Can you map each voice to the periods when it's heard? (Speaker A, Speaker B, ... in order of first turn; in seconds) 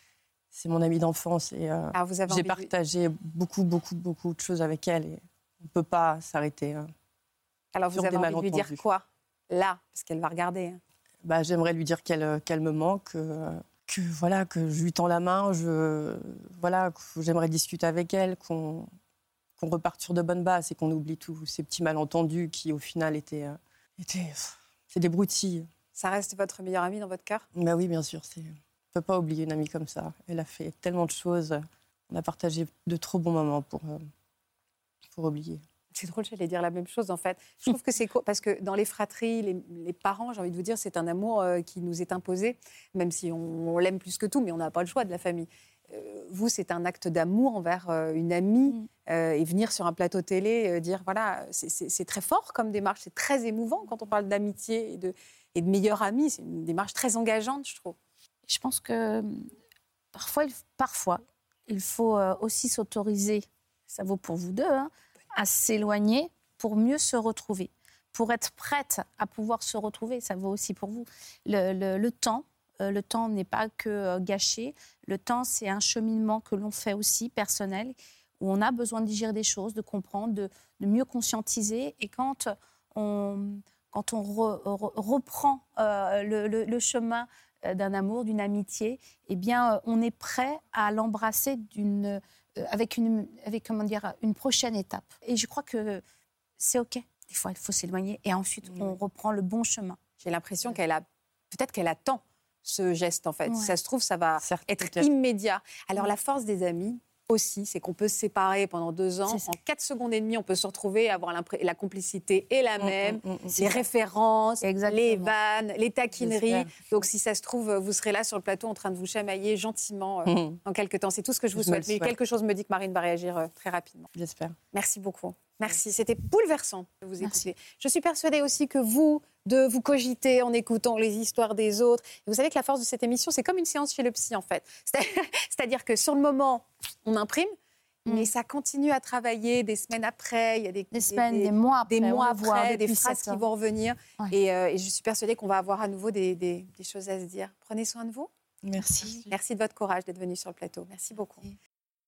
Speaker A: 0.5-6.8, 7.9-8.8, 11.2-18.9, 19.6-25.7, 27.5-34.0, 35.1-35.6, 104.4-105.1, 112.8-113.8, 116.2-116.8, 120.2-120.6, 121.5-122.1, 124.1-124.5, 148.6-149.3
Speaker B: 1.9-2.7, 7.7-10.8, 25.9-27.4, 35.9-58.0, 100.2-124.1, 124.7-137.5, 138.1-148.3, 149.1-151.5
Speaker C: 58.5-59.3, 60.1-96.0, 96.6-100.0, 103.5-103.7, 109.2-109.5, 114.6-115.3, 140.9-143.4